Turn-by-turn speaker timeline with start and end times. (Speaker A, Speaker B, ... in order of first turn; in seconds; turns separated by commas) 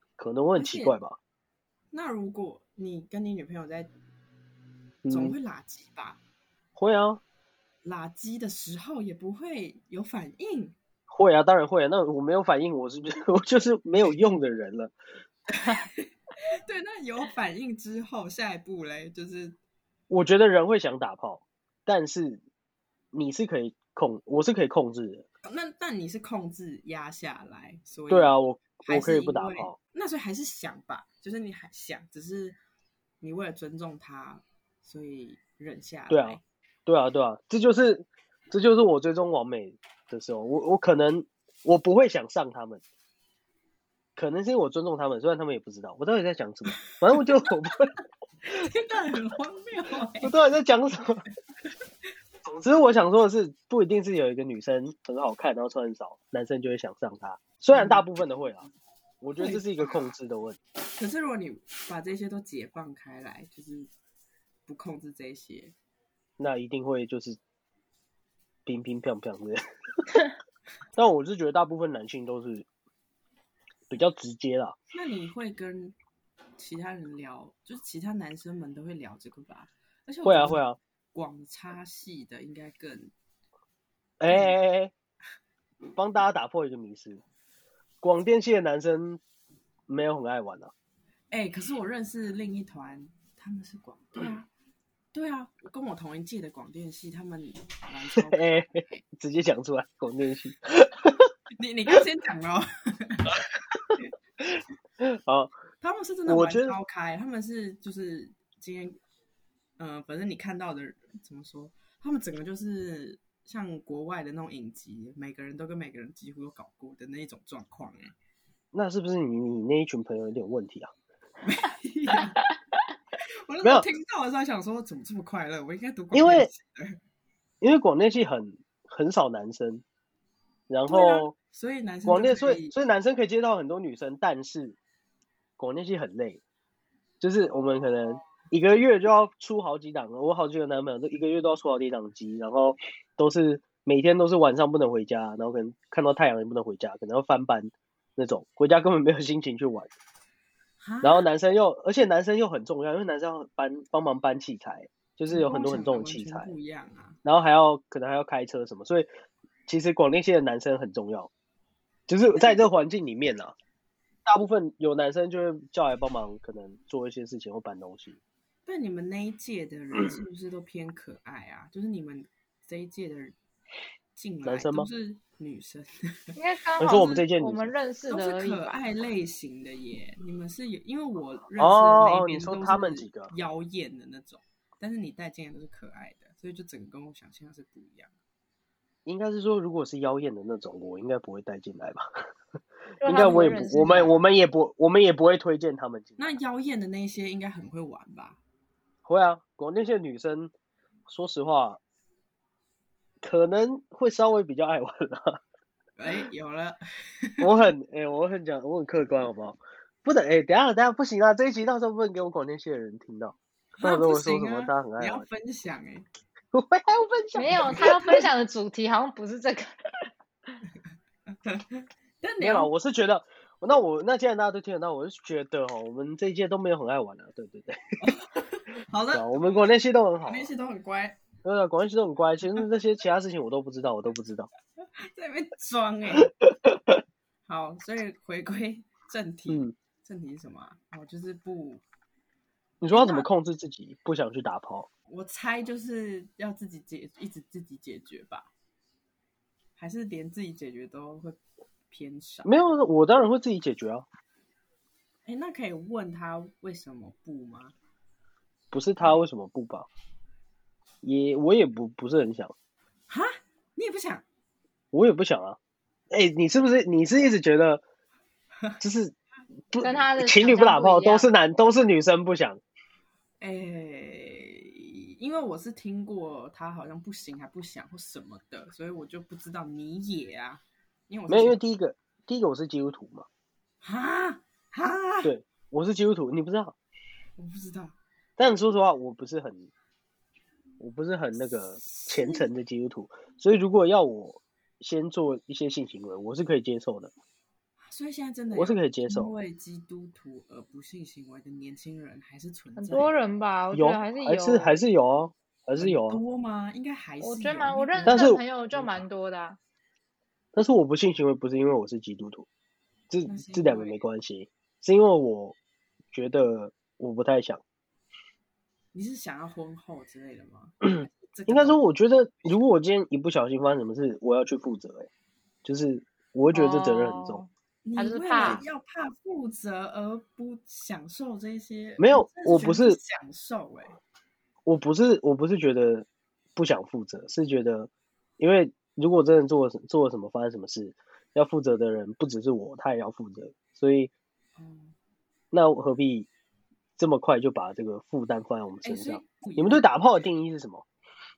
Speaker A: 0.2-1.2, Speaker B: 0.6-0.9, Speaker B: 1.9-3.9, Speaker A: 5.0-5.4, Speaker B: 5.1-6.2, Speaker A: 6.8-7.2, Speaker B: 7.8-10.8, Speaker A: 11.1-14.9, Speaker B: 15.5-19.6, Speaker A: 20.1-22.4, Speaker A: 23.1-25.2, Speaker B: 25.4-32.6, Speaker A: 28.1-29.8, Speaker B: 33.2-36.4, Speaker A: 36.1-42.8, Speaker A: 44.1-47.9, Speaker B: 47.1-47.5, Speaker B: 48.4-50.3, Speaker A: 50.2-51.2, Speaker A: 52.4-58.7, Speaker B: 57.7-58.0, Speaker A: 59.2-60.6, Speaker B: 59.4-60.1, Speaker B: 60.9-63.9, Speaker B: 64.7-65.8, Speaker A: 66.4-67.4, Speaker A: 68.7-69.6, Speaker A: 71.0-72.7, Speaker A: 73.9-74.8, Speaker B: 74.9-75.9, Speaker B: 76.6-83.1, Speaker A: 80.2-80.8, Speaker A: 84.2-84.9, Speaker B: 84.3-84.5, Speaker A: 85.9-87.2, Speaker A: 88.0-89.2, Speaker A: 89.9-90.7, Speaker B: 91.3-94.5, Speaker B: 95.1-98.5, Speaker A: 98.2-101.3, Speaker B: 101.6-103.4, Speaker A: 104.5-105.5, Speaker B: 105.8-109.0, Speaker A: 106.3-106.8, Speaker B: 109.8-118.1, Speaker A: 118.7-120.9, Speaker B: 121.4-122.4, Speaker B: 123.5-127.0, Speaker A: 126.1-126.5, Speaker A: 127.6-129.8, Speaker A: 130.7-131.3, Speaker B: 130.9-132.8, Speaker A: 132.1-134.8, Speaker A: 135.6-136.4, Speaker A: 137.2-149.9, Speaker B: 137.4-138.3, Speaker B: 150.8-151.3, Speaker A: 151.0-156.5, Speaker B: 155.3-157.2, Speaker A: 157.2-159.1, Speaker A: 159.7-161.3, Speaker A: 162.1-163.5, Speaker B: 162.4-162.7, Speaker A: 164.2-168.2, Speaker B: 168.7-173.4, Speaker B: 174.2-176.4, Speaker A: 174.4-174.9, Speaker C: 176.4-178.8, Speaker A: 176.8-177.7, Speaker B: 178.1-188.1, Speaker A: 181.6-183.3, Speaker A: 189.0-192.1, Speaker C: 193.0-194.1, Speaker A: 193.0-196.2, Speaker B: 193.2-194.1, Speaker B: 196.2-198.4, Speaker A: 199.0-200.5, Speaker A: 201.1-201.8, Speaker A: 203.2-205.4, Speaker B: 206.0-207.5, Speaker A: 207.4-215.2, Speaker B: 213.8-216.1, Speaker A: 216.5-218.0, Speaker C: 217.3-220.5, Speaker B: 217.5-218.3, Speaker B: 221.3-222.7, Speaker A: 222.4-228.0, Speaker B: 228.0-231.2, Speaker A: 229.1-230.5, Speaker A: 231.4-234.5, Speaker B: 234.8-236.3, Speaker A: 236.2-237.0, Speaker B: 237.5-241.8, Speaker A: 239.5-239.7, Speaker A: 242.8-244.9, Speaker B: 242.8-243.3, Speaker B: 245.1-248.5, Speaker B: 249.8-251.4, Speaker B: 251.9-252.7, Speaker A: 252.4-254.1, Speaker B: 255.2-257.8, Speaker A: 258.7-259.9, Speaker A: 261.0-262.5, Speaker B: 263.1-264.2, Speaker A: 264.9-265.6, Speaker A: 266.1-267.8, Speaker A: 268.8-269.1, Speaker A: 269.7-272.6, Speaker C: 269.8-271.3, Speaker B: 273.4-281.6, Speaker A: 281.3-283.2, Speaker B: 283.8-285.3, Speaker A: 285.2-286.8, Speaker B: 287.4-287.9, Speaker A: 288.4-289.7, Speaker A: 290.8-297.1, Speaker B: 291.8-292.5, Speaker B: 297.8-303.1, Speaker A: 298.5-299.3, Speaker C: 302.8-304.8, Speaker A: 303.7-306.2, Speaker B: 305.8-308.3, Speaker C: 307.2-309.6, Speaker A: 308.1-308.8, Speaker A: 310.5-312.5, Speaker A: 313.1-315.6, Speaker B: 313.2-314.0, Speaker A: 316.1-317.6, Speaker B: 318.9-321.8, Speaker A: 320.8-325.1, Speaker A: 325.6-327.4, Speaker C: 326.5-328.6, Speaker B: 327.8-334.0, Speaker A: 332.0-333.0, Speaker A: 334.6-344.1, Speaker B: 344.6-344.9, Speaker A: 345.5-346.3, Speaker A: 347.0-350.9, Speaker B: 348.8-350.0